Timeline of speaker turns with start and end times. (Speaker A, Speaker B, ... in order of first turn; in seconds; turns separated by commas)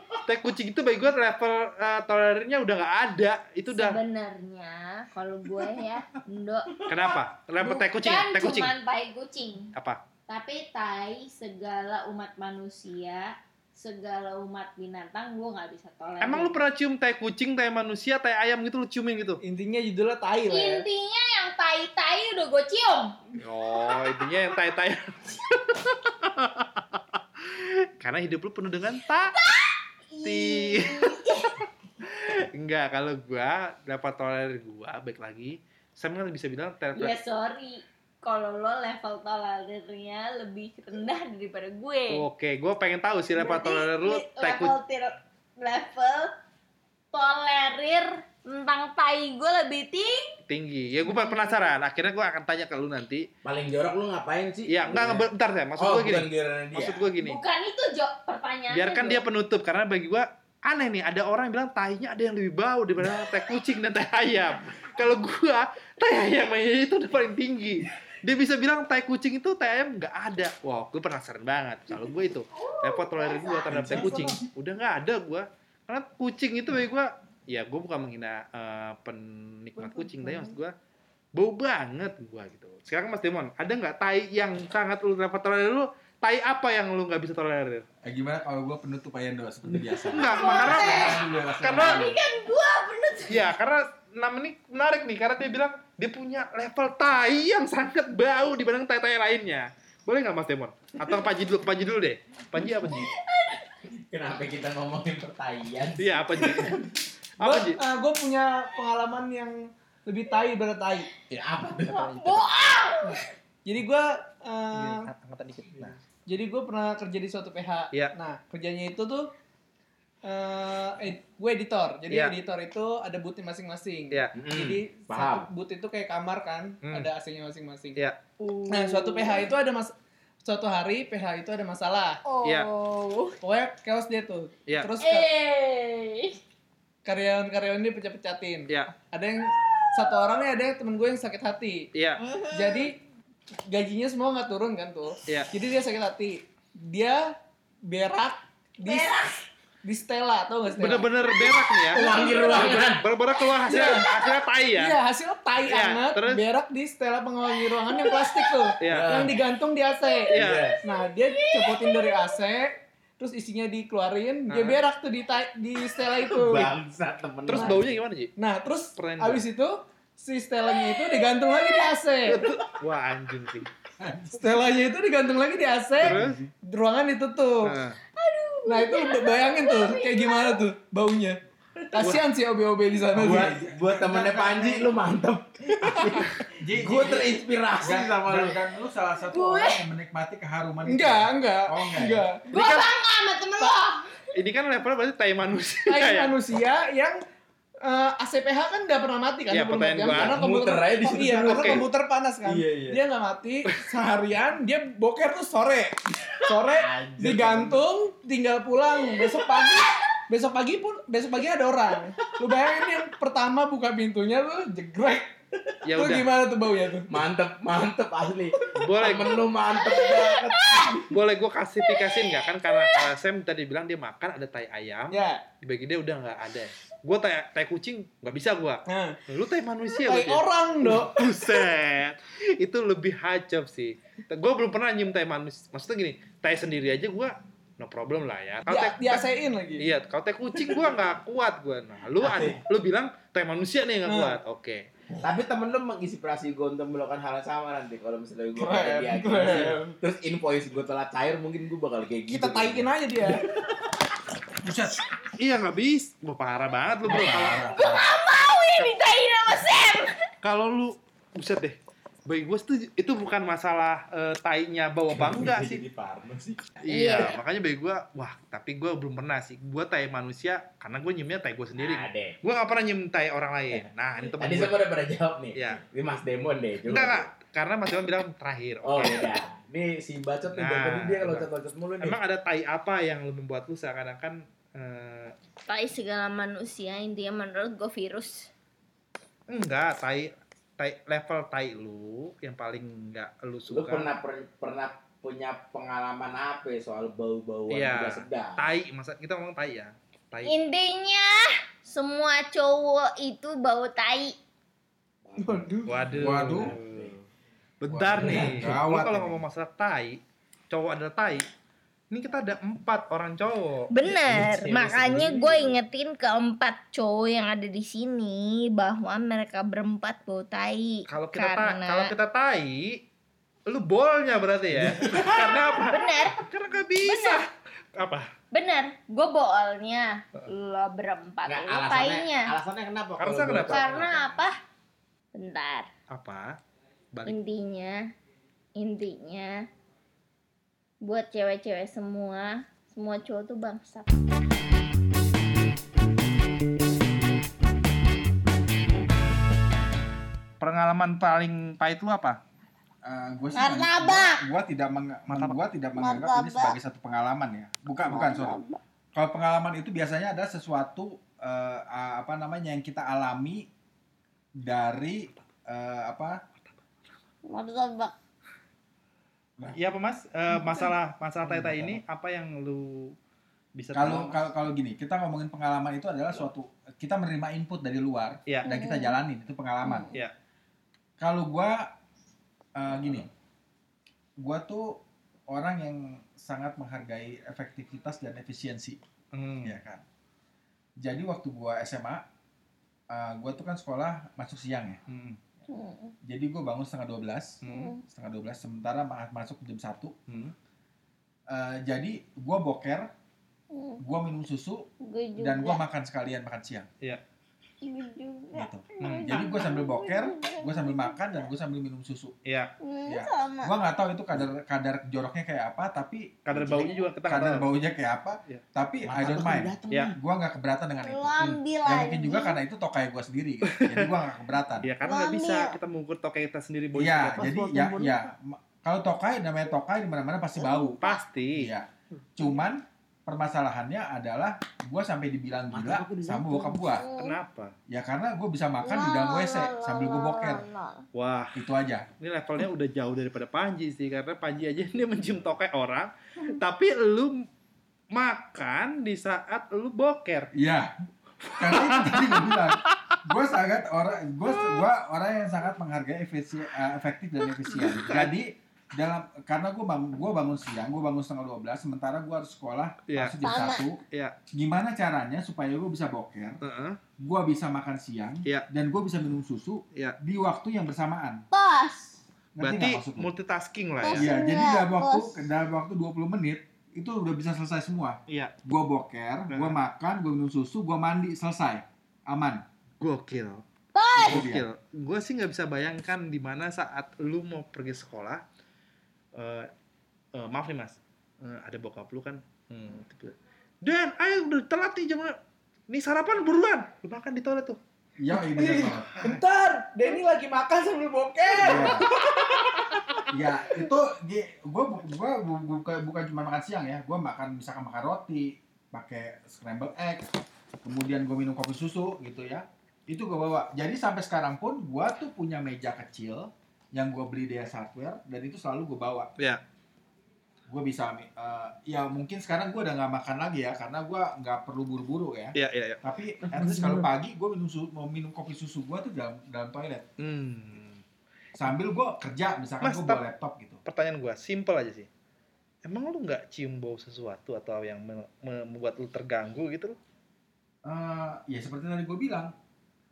Speaker A: 0.2-4.0, Speaker B: 3.7-6.8, Speaker A: 6.9-8.8, Speaker B: 7.6-9.7, Speaker A: 9.7-10.0, Speaker B: 10.3-16.6, Speaker A: 16.2-19.4, Speaker C: 19.4-20.9, Speaker B: 20.5-23.2, Speaker A: 23.4-29.4, Speaker B: 29.3-31.6, Speaker A: 30.2-31.2, Speaker A: 32.0-37.2, Speaker B: 37.0-42.2, Speaker A: 42.1-44.8, Speaker B: 43.4-46.4, Speaker B: 47.1-50.4, Speaker A: 50.5-53.3, Speaker B: 51.0-51.7, Speaker D: 53.4-57.1, Speaker A: 54.7-57.4, Speaker B: 57.2-59.2, Speaker A: 58.7-80.7, Speaker B: 72.6-74.2, Speaker E: 73.7-74.5, Speaker B: 79.8-80.5, Speaker A: 81.3-87.9, Speaker E: 88.0-92.2, Speaker D: 89.7-90.1, Speaker A: 90.1-92.1, Speaker B: 90.2-93.5, Speaker A: 93.3-103.1, Speaker B: 102.9-103.8, Speaker D: 104.1-106.9, Speaker A: 106.0-106.8, Speaker C: 107.4-111.1, Speaker A: 107.4-107.8, Speaker D: 111.3-112.5, Speaker A: 111.4-112.0, Speaker B: 111.9-113.2, Speaker C: 113.0-115.0, Speaker A: 114.7-116.0, Speaker C: 116.3-119.3, Speaker C: 120.2-128.0, Speaker A: 122.1-122.3, Speaker D: 124.3-125.5, Speaker A: 126.8-127.1, Speaker B: 128.4-129.5, Speaker C: 128.7-132.2, Speaker B: 132.2-133.4, Speaker A: 132.4-132.7, Speaker C: 133.4-135.3, Speaker B: 135.0-136.4, Speaker C: 137.1-141.9, Speaker A: 138.7-138.9, Speaker A: 141.9-142.2, Speaker B: 142.2-142.8, Speaker C: 142.5-143.0, Speaker C: 143.7-149.2, Speaker B: 148.8-149.5, Speaker C: 149.8-151.1, Speaker A: 150.8-155.0, Speaker B: 151.9-152.8, Speaker D: 151.9-153.1, Speaker C: 152.0-152.8, Speaker C: 153.6-154.1, Speaker C: 154.7-166.8, Speaker A: 155.7-156.4, Speaker B: 157.8-158.7, Speaker A: 158.8-159.3, Speaker D: 158.9-159.3, Speaker A: 160.3-160.7, Speaker D: 160.4-160.8, Speaker B: 161.3-162.3, Speaker A: 164.5-164.8, Speaker D: 166.1-168.0, Speaker A: 167.5-168.3, Speaker C: 167.5-167.8, Speaker C: 168.4-172.5, Speaker A: 169.0-169.4, Speaker B: 170.6-171.9, Speaker A: 172.3-173.7, Speaker E: 174.0-174.5, Speaker C: 174.3-177.8, Speaker A: 176.0-176.4, Speaker E: 176.0-176.5, Speaker A: 177.7-178.0, Speaker B: 178.2-180.6, Speaker C: 178.7-181.4, Speaker C: 181.9-183.7, Speaker D: 183.1-188.6, Speaker E: 183.2-185.0, Speaker C: 185.8-186.4, Speaker E: 186.6-192.2, Speaker B: 189.3-189.8, Speaker C: 190.8-192.5, Speaker A: 192.5-192.9, Speaker B: 192.5-194.1, Speaker A: 194.3-196.3, Speaker C: 195.9-197.2, Speaker C: 197.8-215.3, Speaker A: 199.5-200.4, Speaker D: 200.1-201.9, Speaker A: 201.4-201.8, Speaker D: 202.4-203.0, Speaker D: 206.5-207.8, Speaker A: 215.8-216.3, Speaker C: 215.9-217.2, Speaker D: 217.1-221.1, Speaker C: 218.6-219.0, Speaker A: 218.8-219.4, Speaker B: 219.8-220.4, Speaker C: 220.6-221.0, Speaker A: 221.1-239.2, Speaker B: 221.9-223.0, Speaker C: 225.1-225.4, Speaker C: 228.9-229.2, Speaker C: 229.9-231.7, Speaker C: 238.7-239.9, Speaker A: 239.8-244.8, Speaker C: 240.5-240.8, Speaker D: 242.2-242.6, Speaker C: 244.0-244.4, Speaker D: 245.2-253.4, Speaker C: 248.6-250.0, Speaker A: 249.5-249.8, Speaker C: 252.3-253.4, Speaker E: 254.6-255.0, Speaker A: 255.4-257.7, Speaker E: 257.1-258.1, Speaker B: 257.7-260.2, Speaker A: 260.4-265.8, Speaker D: 265.1-266.6, Speaker A: 266.8-274.8, Speaker B: 266.9-267.4, Speaker D: 271.8-272.4, Speaker D: 273.7-277.3, Speaker A: 275.6-275.8, Speaker A: 276.9-279.4, Speaker D: 278.8-282.2, Speaker A: 280.5-281.5, Speaker A: 282.0-285.3, Speaker B: 285.7-288.5, Speaker A: 289.5-294.1, Speaker D: 293.7-298.7, Speaker A: 297.7-300.6, Speaker B: 300.4-304.4, Speaker D: 305.3-307.2, Speaker C: 305.4-306.0, Speaker A: 305.9-307.1, Speaker E: 306.1-306.8, Speaker A: 307.8-311.4, Speaker E: 307.9-309.4, Speaker D: 308.1-308.7, Speaker A: 312.1-315.8, Speaker B: 313.9-322.1, Speaker A: 321.1-323.0, Speaker A: 323.7-328.3, Speaker D: 324.8-325.5, Speaker B: 325.3-326.4, Speaker B: 327.0-327.4, Speaker B: 328.5-332.5, Speaker D: 331.5-334.5, Speaker A: 333.2-333.9, Speaker B: 333.5-334.6, Speaker B: 335.3-335.9, Speaker A: 336.1-336.5, Speaker B: 337.3-338.1, Speaker B: 338.8-339.7, Speaker B: 341.0-344.3, Speaker A: 350.6-352.4, Speaker E: 353.0-358.6, Speaker B: 353.5-354.4, Speaker A: 355.3-355.6, Speaker B: 355.9-356.8, Speaker B: 358.0-358.8, Speaker E: 359.1-363.7, Speaker E: 364.6-366.4, Speaker B: 367.5-368.1, Speaker A: 369.7-373.1, Speaker B: 370.5-370.9, Speaker E: 371.4-372.0, Speaker A: 373.8-374.5, Speaker E: 373.9-380.1, Speaker B: 378.6-379.2, Speaker B: 379.8-380.1, Speaker E: 381.2-381.9, Speaker E: 382.8-383.3, Speaker E: 384.4-389.0, Speaker A: 389.3-389.8, Speaker E: 389.6-390.0, Speaker E: 391.0-392.2, Speaker E: 393.1-395.0, Speaker A: 395.1-395.4, Speaker B: 395.7-396.1, Speaker E: 396.2-400.2, Speaker A: 397.6-397.9, Speaker B: 397.6-398.0, Speaker A: 400.3-400.5, Speaker E: 401.5-403.1, Speaker B: 403.7-404.0, Speaker E: 404.0-406.9, Speaker B: 405.0-405.8, Speaker B: 407.8-411.5, Speaker E: 408.5-412.4, Speaker A: 409.0-409.4, Speaker A: 412.5-412.7, Speaker B: 412.8-413.8, Speaker E: 413.1-424.9, Speaker A: 416.5-417.7, Speaker D: 419.0-420.2, Speaker B: 421.0-422.6, Speaker A: 423.7-424.1, Speaker A: 424.8-427.6, Speaker B: 425.0-425.8, Speaker E: 426.9-431.0, Speaker D: 427.4-428.3, Speaker B: 430.6-431.2, Speaker A: 431.0-431.7, Speaker E: 431.5-437.1, Speaker D: 435.7-436.8, Speaker B: 436.8-437.4, Speaker A: 437.2-437.8, Speaker E: 437.9-440.6, Speaker B: 438.8-441.0, Speaker A: 441.1-441.6, Speaker E: 441.6-442.1, Speaker A: 442.2-447.4, Speaker A: 448.1-450.5, Speaker E: 450.5-450.9, Speaker A: 451.5-453.2, Speaker E: 451.6-464.0, Speaker A: 457.8-458.3, Speaker A: 463.1-463.4, Speaker B: 463.4-463.9, Speaker A: 464.1-464.4, Speaker E: 464.5-466.6, Speaker A: 466.6-467.0, Speaker E: 467.2-471.5, Speaker B: 471.5-472.2, Speaker E: 472.6-473.3, Speaker A: 472.6-474.3, Speaker B: 474.0-475.5, Speaker E: 474.1-482.6, Speaker A: 478.3-478.5, Speaker A: 479.5-479.8, Speaker A: 483.0-483.6, Speaker B: 483.9-484.4, Speaker E: 484.2-484.7, Speaker A: 484.2-488.4, Speaker A: 489.4-489.7, Speaker A: 490.4-495.4, Speaker A: 495.9-497.8, Speaker E: 498.2-499.4, Speaker C: 498.4-502.9, Speaker E: 501.6-502.1, Speaker E: 503.3-510.3, Speaker E: 510.8-519.3, Speaker E: 520.7-530.1, Speaker A: 525.5-526.0, Speaker A: 530.2-531.0, Speaker E: 531.6-533.8, Speaker A: 532.8-533.2, Speaker A: 533.9-535.1, Speaker A: 535.9-540.0, Speaker E: 540.9-542.5